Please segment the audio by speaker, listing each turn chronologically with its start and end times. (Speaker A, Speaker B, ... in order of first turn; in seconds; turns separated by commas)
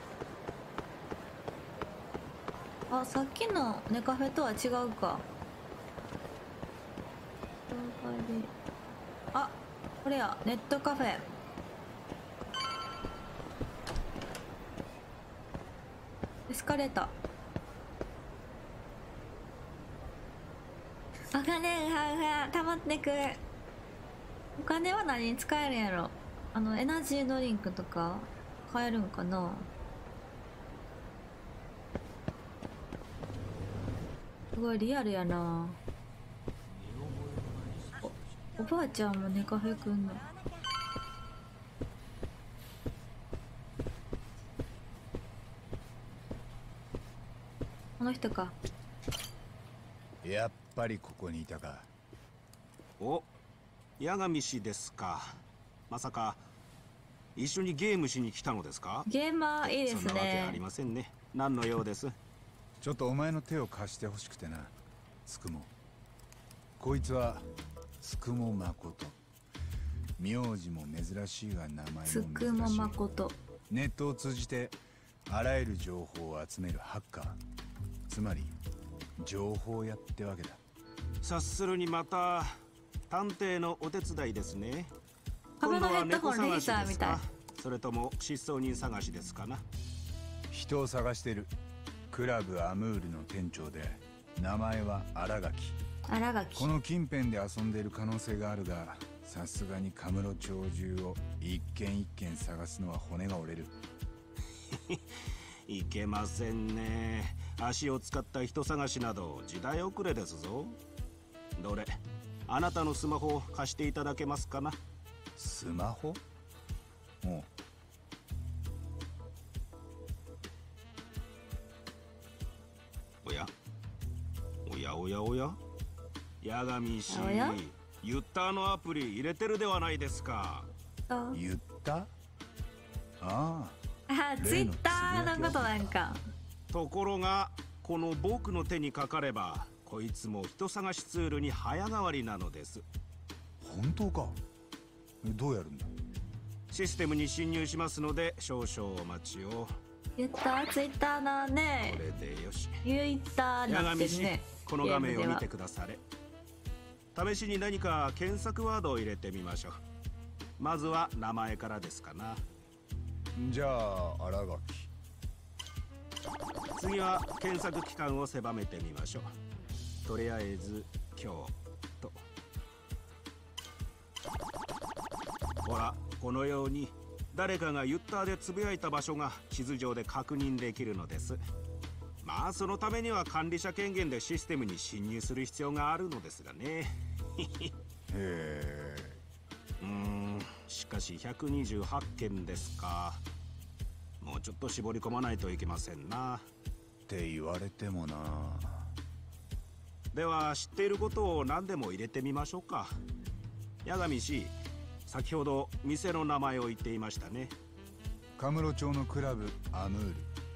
Speaker A: 2.9-5.2, Speaker A: 7.7-8.5, Speaker A: 9.3-11.3, Speaker A: 16.5-17.1, Speaker A: 21.3-23.4, Speaker A: 24.6-29.7, Speaker A: 34.5-35.8, Speaker A: 38.0-40.2, Speaker A: 48.0-48.5, Speaker B: 50.2-51.9, Speaker C: 53.0-53.3, Speaker C: 54.0-55.4, Speaker C: 55.9-56.4, Speaker C: 57.4-59.1, Speaker A: 59.1-60.6, Speaker C: 59.6-62.1, Speaker B: 62.8-64.7, Speaker B: 65.2-65.7, Speaker B: 66.8-67.4, Speaker B: 68.0-69.2, Speaker B: 70.2-73.0, Speaker A: 72.1-73.4, Speaker B: 73.7-77.4, Speaker B: 78.1-78.6, Speaker B: 79.2-80.6, Speaker C: 81.2-82.5, Speaker C: 83.1-84.9, Speaker C: 85.6-89.6, Speaker A: 85.6-87.2, Speaker B: 90.5-91.5, Speaker B: 92.1-95.8, Speaker A: 96.1-96.7, Speaker B: 96.5-103.8, Speaker C: 104.7-105.0, Speaker C: 105.7-110.8, Speaker C: 111.6-114.8, Speaker B: 115.4-116.2, Speaker B: 117.2-117.5, Speaker C: 123.2-123.5, Speaker C: 124.7-125.6, Speaker C: 126.4-130.7, Speaker A: 127.1-127.6, Speaker A: 131.1-131.4, Speaker B: 131.3-132.1, Speaker B: 133.2-133.8, Speaker A: 134.1-136.2, Speaker B: 134.4-136.0, Speaker C: 136.7-142.8, Speaker B: 143.6-144.4, Speaker B: 145.2-145.9, Speaker C: 146.7-149.7, Speaker A: 150.2-152.0, Speaker C: 151.8-152.8, Speaker A: 152.8-155.4, Speaker C: 153.7-156.0, Speaker C: 157.1-159.8, Speaker C: 160.6-162.4, Speaker B: 163.3-164.9, Speaker C: 166.8-169.3, Speaker C: 170.1-172.2, Speaker C: 175.6-181.4, Speaker C: 182.2-187.7, Speaker B: 188.1-189.2, Speaker C: 189.8-193.2, Speaker C: 194.2-196.5, Speaker B: 197.1-198.9, Speaker C: 200.1-202.9, Speaker C: 203.8-204.5, Speaker C: 205.1-207.5, Speaker B: 208.4-210.3